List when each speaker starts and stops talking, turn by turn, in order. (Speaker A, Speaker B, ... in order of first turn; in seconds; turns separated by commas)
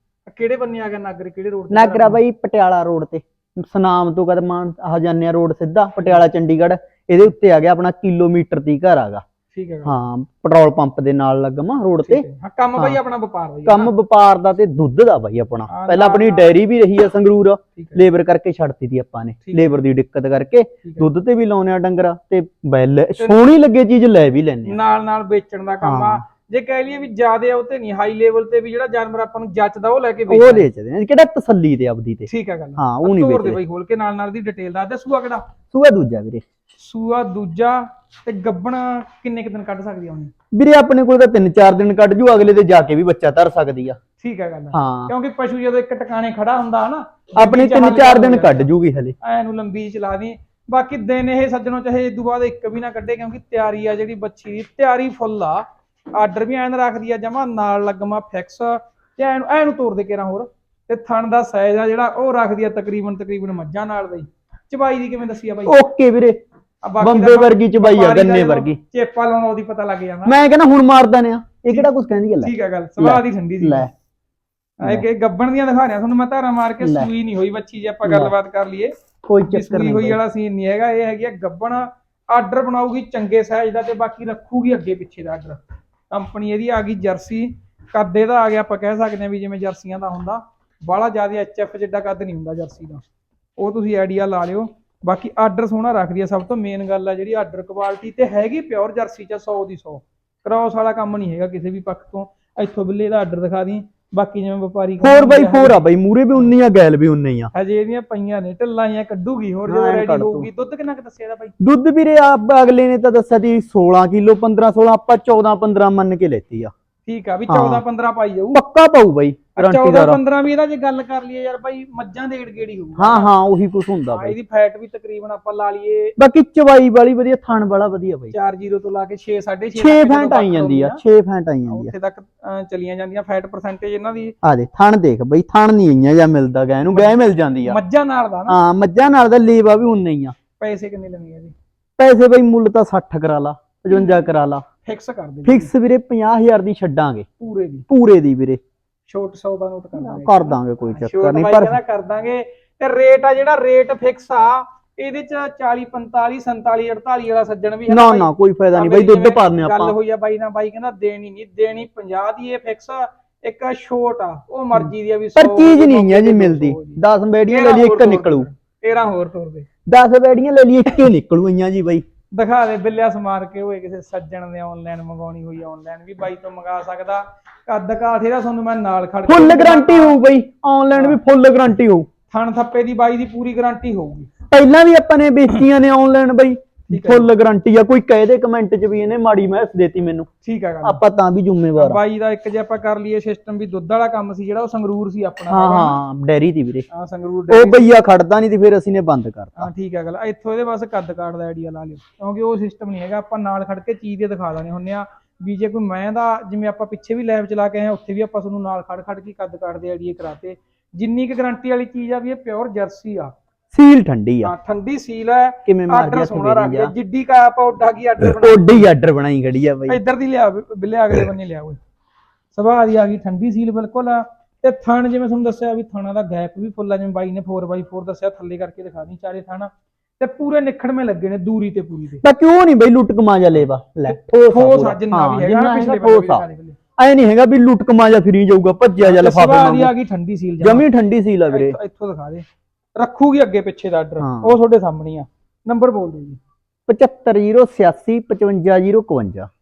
Speaker A: 0.3-2.2, Speaker B: 1.7-9.2, Speaker A: 9.5-10.0, Speaker B: 9.8-12.2, Speaker A: 12.0-13.9, Speaker B: 13.7-24.8, Speaker A: 15.7-16.6, Speaker A: 17.8-18.0, Speaker A: 19.4-19.8, Speaker A: 20.8-21.1, Speaker A: 23.2-23.4, Speaker A: 24.6-30.7, Speaker B: 25.8-26.2, Speaker B: 30.3-33.6, Speaker A: 32.3-35.4, Speaker B: 35.7-36.4, Speaker A: 36.8-40.3, Speaker B: 40.5-44.0, Speaker A: 44.2-48.7, Speaker B: 44.7-45.1, Speaker B: 47.4-49.1, Speaker A: 49.2-65.7, Speaker B: 65.7-66.4, Speaker A: 66.8-70.3, Speaker B: 67.0-68.8, Speaker B: 70.2-73.9, Speaker A: 72.4-73.9, Speaker A: 74.8-78.9, Speaker B: 76.8-77.1, Speaker B: 78.0-78.3, Speaker B: 79.3-80.2, Speaker A: 79.5-93.0, Speaker A: 93.6-105.8, Speaker B: 105.0-107.5, Speaker A: 107.5-111.5, Speaker B: 109.7-110.5, Speaker B: 111.6-116.7, Speaker A: 117.0-118.6, Speaker B: 117.5-117.8, Speaker B: 118.5-120.2, Speaker A: 119.5-123.3, Speaker B: 123.0-124.3, Speaker A: 124.1-126.1, Speaker B: 126.2-128.3, Speaker A: 128.3-131.0, Speaker B: 129.8-131.9, Speaker A: 131.7-134.3, Speaker B: 134.4-137.8, Speaker A: 137.7-138.6, Speaker B: 138.5-140.3, Speaker A: 140.6-141.5, Speaker B: 142.0-144.6, Speaker A: 143.9-144.2, Speaker A: 144.8-145.7, Speaker B: 145.4-147.3, Speaker A: 147.4-147.8, Speaker B: 147.9-148.6, Speaker A: 149.1-169.7, Speaker B: 150.0-151.8, Speaker B: 157.9-159.9, Speaker B: 164.7-168.5, Speaker B: 169.8-172.0, Speaker A: 172.3-180.2, Speaker B: 179.2-182.1, Speaker A: 180.9-181.2, Speaker A: 182.3-184.3, Speaker B: 184.5-190.3, Speaker A: 186.9-187.3, Speaker A: 190.4-191.0, Speaker B: 190.8-192.0, Speaker A: 191.8-196.0, Speaker B: 195.5-196.9, Speaker A: 196.9-197.8, Speaker B: 197.5-199.7, Speaker A: 199.6-213.3, Speaker B: 213.7-214.5, Speaker A: 214.4-218.9, Speaker B: 215.7-216.9, Speaker B: 218.2-220.0, Speaker A: 219.9-221.8, Speaker A: 222.5-232.2, Speaker B: 232.2-236.4, Speaker A: 234.1-236.8, Speaker B: 237.0-239.9, Speaker A: 239.0-240.9, Speaker B: 240.6-241.8, Speaker A: 241.5-242.4, Speaker A: 242.9-246.4, Speaker B: 244.2-244.6, Speaker B: 246.9-249.5